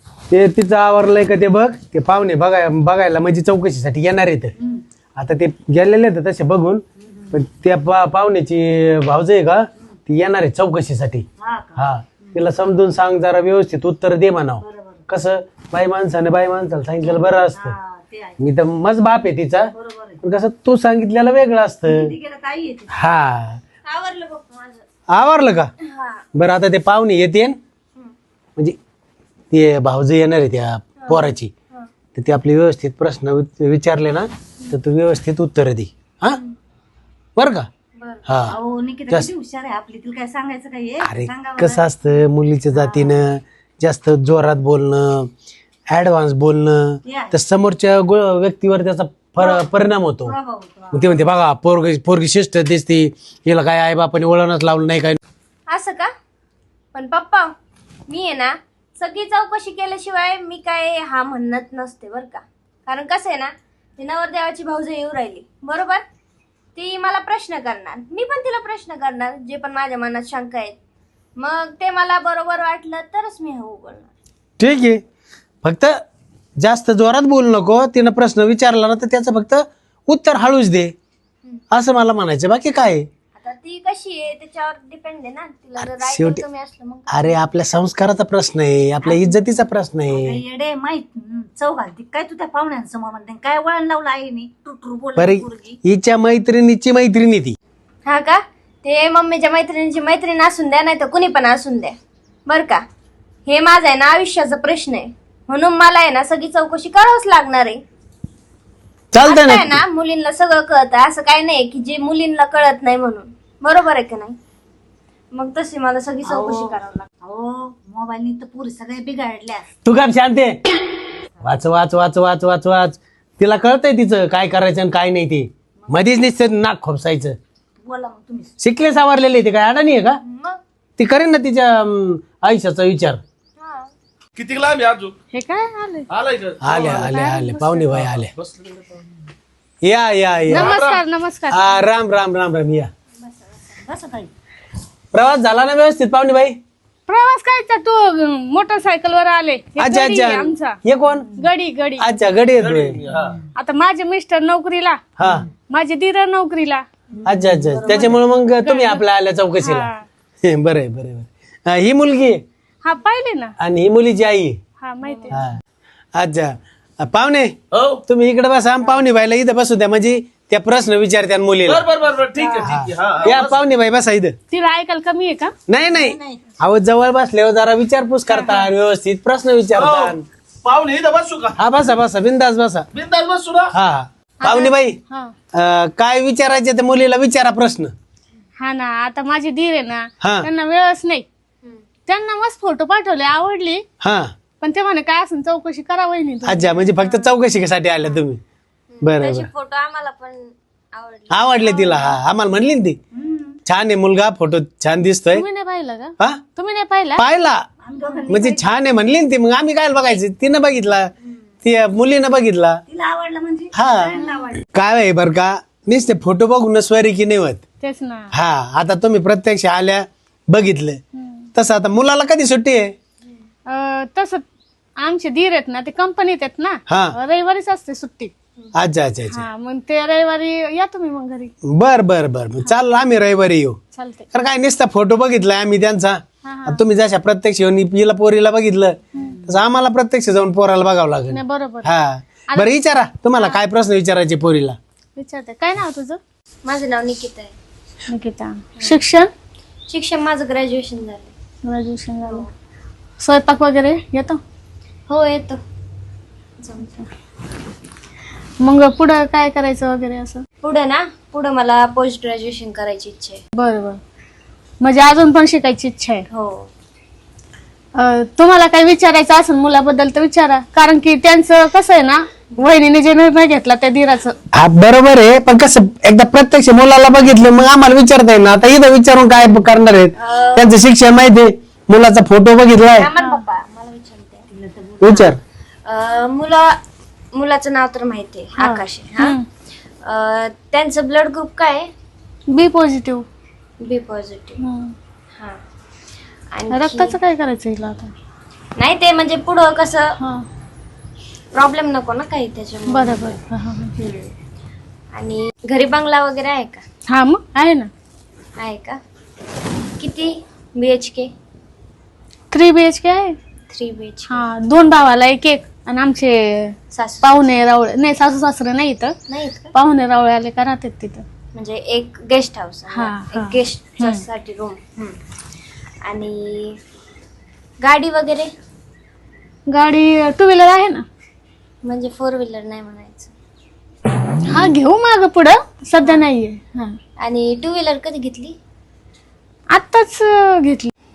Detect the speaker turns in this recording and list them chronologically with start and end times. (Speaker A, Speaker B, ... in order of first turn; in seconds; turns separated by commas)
Speaker A: 0.3-4.5, Speaker A: 5.2-17.8, Speaker B: 7.0-7.3, Speaker B: 11.4-12.4, Speaker B: 14.6-15.0, Speaker B: 17.0-18.4, Speaker A: 18.4-22.1, Speaker B: 19.7-20.2, Speaker B: 21.9-22.9, Speaker A: 22.9-23.6, Speaker C: 23.9-24.8, Speaker A: 25.1-25.7, Speaker C: 25.9-26.2, Speaker A: 26.3-27.6, Speaker A: 29.5-31.5, Speaker C: 31.1-31.9, Speaker A: 32.1-36.4, Speaker A: 37.4-37.7, Speaker C: 38.0-38.2, Speaker A: 38.2-38.6, Speaker B: 38.5-41.8, Speaker A: 41.0-45.3, Speaker B: 42.8-43.1, Speaker A: 45.9-50.4, Speaker B: 47.0-47.3, Speaker B: 50.2-51.1, Speaker A: 50.9-55.2, Speaker C: 55.7-56.1, Speaker C: 56.9-57.5, Speaker C: 58.1-66.0, Speaker C: 66.8-70.7, Speaker C: 71.4-74.1, Speaker A: 74.6-75.0, Speaker A: 75.6-76.0, Speaker A: 76.6-80.9, Speaker A: 81.7-83.1, Speaker C: 83.3-87.4, Speaker A: 85.8-86.4, Speaker A: 87.1-90.4, Speaker B: 89.0-89.3, Speaker B: 90.1-95.8, Speaker A: 95.2-97.6, Speaker C: 98.0-102.0, Speaker C: 102.5-102.8, Speaker C: 103.5-107.8, Speaker A: 109.1-109.8, Speaker C: 109.2-114.3, Speaker C: 115.3-117.1, Speaker B: 116.2-119.7, Speaker A: 119.8-120.6, Speaker A: 121.4-127.3, Speaker B: 127.8-128.5, Speaker A: 128.6-130.2, Speaker A: 131.0-133.2, Speaker C: 133.6-133.9, Speaker D: 134.3-135.1, Speaker E: 135.3-136.1, Speaker D: 136.1-137.2, Speaker A: 136.6-138.3, Speaker E: 136.9-137.9, Speaker D: 137.9-138.9, Speaker A: 139.8-140.8, Speaker E: 140.5-141.8, Speaker D: 140.5-141.0, Speaker A: 141.5-142.9, Speaker B: 143.7-144.3, Speaker A: 145.1-146.6, Speaker E: 147.1-150.8, Speaker A: 149.8-151.3, Speaker E: 151.3-152.1, Speaker A: 152.0-153.0, Speaker D: 152.6-153.4, Speaker E: 153.5-155.0, Speaker A: 155.2-155.4, Speaker E: 155.7-156.8, Speaker B: 157.2-158.1, Speaker A: 157.2-159.9, Speaker E: 157.9-159.0, Speaker E: 159.6-160.1, Speaker A: 160.4-162.4, Speaker E: 162.8-163.5, Speaker A: 163.6-164.6, Speaker E: 164.8-165.4, Speaker A: 165.3-165.6, Speaker A: 166.1-171.8, Speaker D: 167.7-168.0, Speaker D: 171.6-173.6, Speaker B: 172.4-173.3, Speaker A: 172.6-174.3, Speaker E: 174.5-175.5, Speaker A: 175.7-180.2, Speaker B: 175.9-176.4, Speaker E: 178.3-178.7, Speaker D: 179.7-181.6, Speaker A: 181.6-182.9, Speaker D: 182.9-183.7, Speaker A: 183.7-185.0, Speaker E: 184.4-185.3, Speaker A: 185.5-187.9, Speaker E: 188.6-191.2, Speaker A: 190.2-190.5, Speaker E: 192.1-193.8, Speaker A: 194.0-194.3, Speaker E: 194.6-197.2, Speaker A: 196.4-198.4, Speaker C: 198.9-201.9, Speaker A: 199.0-199.5, Speaker A: 201.3-203.0, Speaker E: 201.8-202.1, Speaker B: 203.1-203.6, Speaker A: 203.6-205.4, Speaker E: 205.3-207.2, Speaker A: 207.2-207.6, Speaker B: 207.8-208.6, Speaker A: 208.3-211.1, Speaker A: 211.6-212.8, Speaker B: 212.9-214.6, Speaker A: 213.7-217.6, Speaker E: 217.8-218.3, Speaker A: 218.3-221.0, Speaker E: 221.1-221.5, Speaker A: 221.5-222.9, Speaker E: 223.7-224.4, Speaker E: 225.0-228.3, Speaker A: 226.9-227.1, Speaker A: 228.7-229.4, Speaker E: 229.3-231.5, Speaker A: 231.7-233.8, Speaker E: 233.9-234.3, Speaker A: 234.3-244.8, Speaker E: 236.4-236.8, Speaker E: 239.1-239.4, Speaker E: 241.3-241.9, Speaker E: 243.3-243.6, Speaker E: 245.2-246.2, Speaker C: 246.6-247.5, Speaker E: 248.1-249.3, Speaker C: 249.9-251.3, Speaker E: 251.6-252.4, Speaker E: 253.2-254.4, Speaker C: 255.1-255.6, Speaker E: 258.6-260.4, Speaker C: 260.6-263.4, Speaker E: 263.5-264.0, Speaker E: 264.8-266.2, Speaker C: 266.3-266.7, Speaker E: 267.9-274.4, Speaker A: 274.5-283.1, Speaker C: 280.2-280.7, Speaker C: 283.0-284.5, Speaker B: 284.5-285.0, Speaker A: 285.0-285.4, Speaker C: 285.9-286.8, Speaker C: 287.3-289.4, Speaker E: 288.6-289.4, Speaker C: 290.0-291.9, Speaker E: 292.5-293.2, Speaker C: 293.8-294.6, Speaker E: 294.6-294.9, Speaker C: 296.5-297.1, Speaker E: 296.7-298.1, Speaker C: 298.8-300.1, Speaker E: 300.2-300.4, Speaker C: 301.5-303.4, Speaker E: 302.9-303.9, Speaker C: 304.0-304.3, Speaker C: 305.1-306.8, Speaker E: 307.1-307.9, Speaker C: 308.6-309.0, Speaker C: 310.0-311.3, Speaker E: 312.5-313.4, Speaker C: 313.7-314.4, Speaker E: 314.3-319.1, Speaker C: 316.9-317.5, Speaker C: 319.3-319.7, Speaker E: 319.7-321.2, Speaker C: 321.5-325.2, Speaker E: 322.9-324.2, Speaker C: 326.0-326.8, Speaker C: 327.8-328.5, Speaker E: 329.7-331.0, Speaker C: 331.8-333.3, Speaker E: 334.4-336.9, Speaker C: 337.2-338.6, Speaker E: 339.7-340.9